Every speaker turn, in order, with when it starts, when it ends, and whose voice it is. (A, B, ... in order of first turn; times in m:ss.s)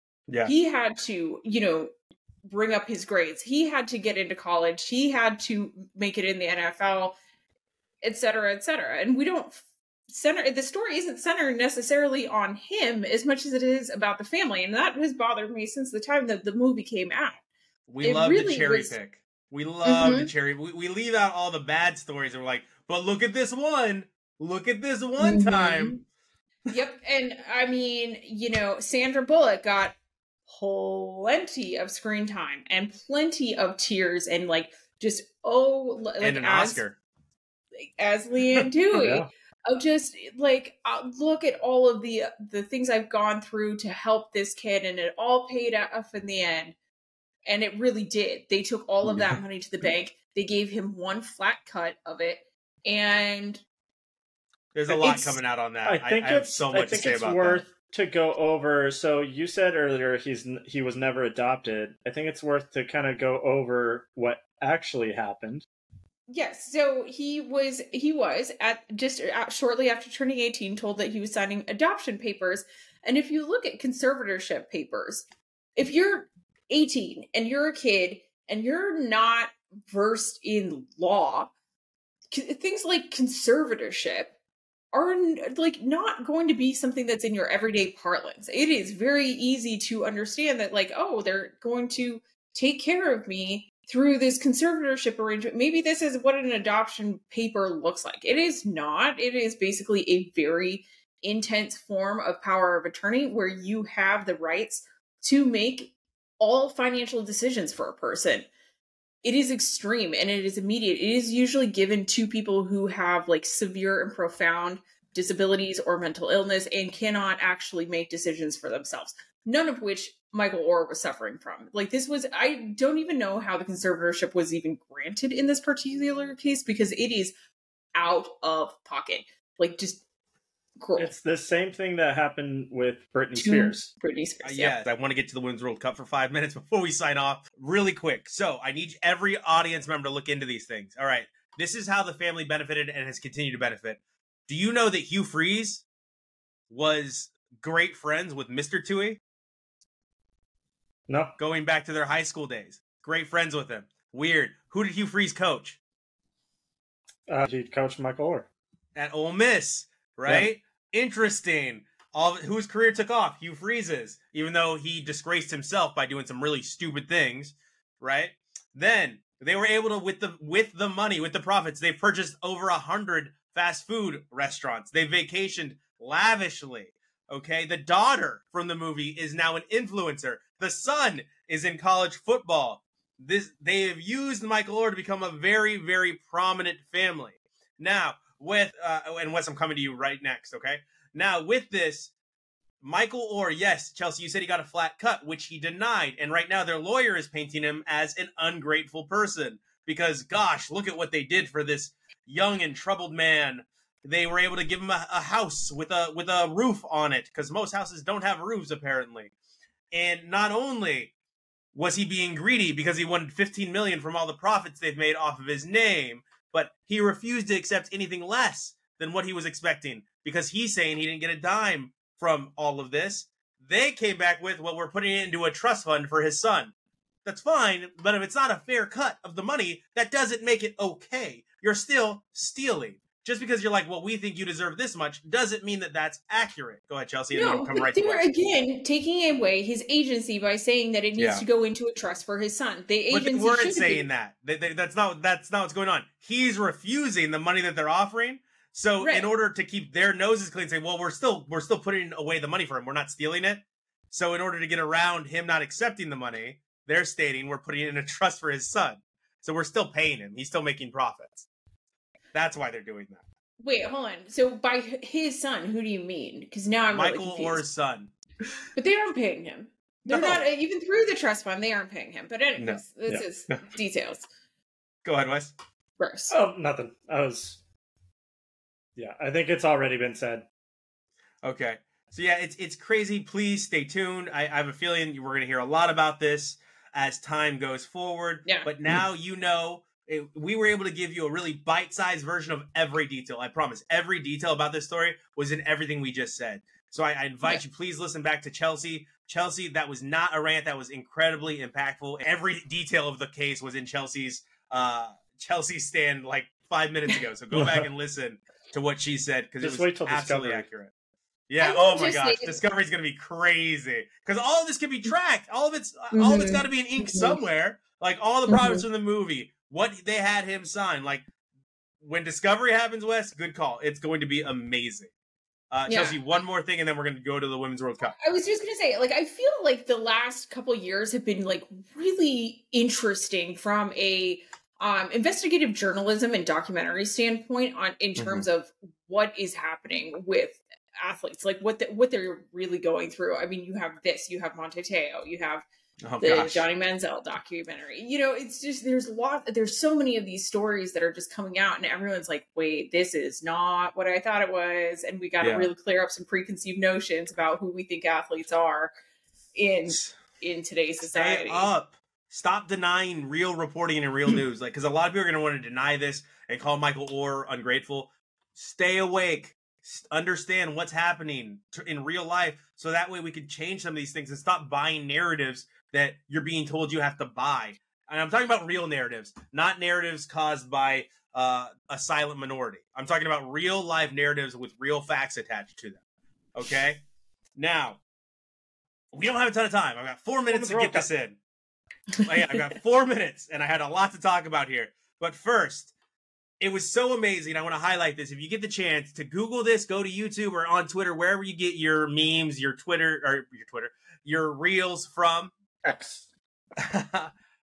0:00.3-0:00.5 A
0:00.4-0:01.9 B
0:02.4-0:07.2 B
0:08.0-0:17.4 B
0:17.9-0:26.0 A
0:18.0-0:18.9 B
0:19.8-0:20.3 B
0:25.2-0:26.0 B
0:26.7-0:29.9 B
0:30.5-0:36.8 B
0:36.2-0:37.0 A
0:37.8-0:46.8 B
0:38.9-0:39.3 C
0:47.4-0:53.6 B
0:54.7-0:57.6 A
0:54.9-0:55.4 B
0:55.8-1:05.6 C
1:06.3-1:21.5 B
1:22.3-1:24.3 B
1:24.9-1:48.5 B
1:49.2-2:07.3 B
2:07.9-2:10.0 B
2:10.8-2:11.1 B
2:11.0-2:13.9 C
2:13.4-2:14.8 B
2:14.4-2:25.8 A
2:26.7-2:29.2 A
2:31.1-2:31.3 C
2:31.4-2:35.8 A
2:37.3-2:38.5 C
2:38.9-3:12.1 A
3:12.8-3:29.3 A
3:29.9-3:31.1 A
3:31.7-3:46.7 A
3:47.2-3:58.3 A
3:57.3-4:04.0 B
4:01.2-4:01.4 A
4:03.1-4:21.5 A
4:09.0-4:09.3 B
4:22.3-4:23.2 A
4:23.6-4:27.6 B
4:26.9-4:28.1 A
4:28.8-4:34.2 B
4:30.1-4:30.4 A
4:32.6-4:32.8 A
4:35.0-4:35.5 A
4:36.0-4:36.3 B
4:36.3-4:37.6 C
4:39.0-4:40.5 C
4:41.4-5:10.9 A
5:07.5-5:07.8 C
5:09.6-5:10.7 C
5:11.5-5:21.2 A
5:11.6-5:12.6 B
5:16.1-5:17.4 B
5:18.5-5:18.8 B
5:22.0-5:25.1 A
5:25.7-5:28.2 A
5:25.9-5:26.2 B
5:28.0-5:45.6 B
5:38.2-5:38.4 A
5:46.0-5:46.6 A
5:46.2-5:58.9 B
5:55.4-5:55.7 A
5:59.6-6:01.7 B
6:01.1-6:26.0 A
6:26.5-6:27.0 A
6:27.6-6:28.0 A
6:29.1-6:31.4 A
6:30.5-6:31.1 C
6:32.2-6:35.9 A
6:36.6-6:45.5 A
6:45.8-6:46.2 C
6:46.8-6:47.3 A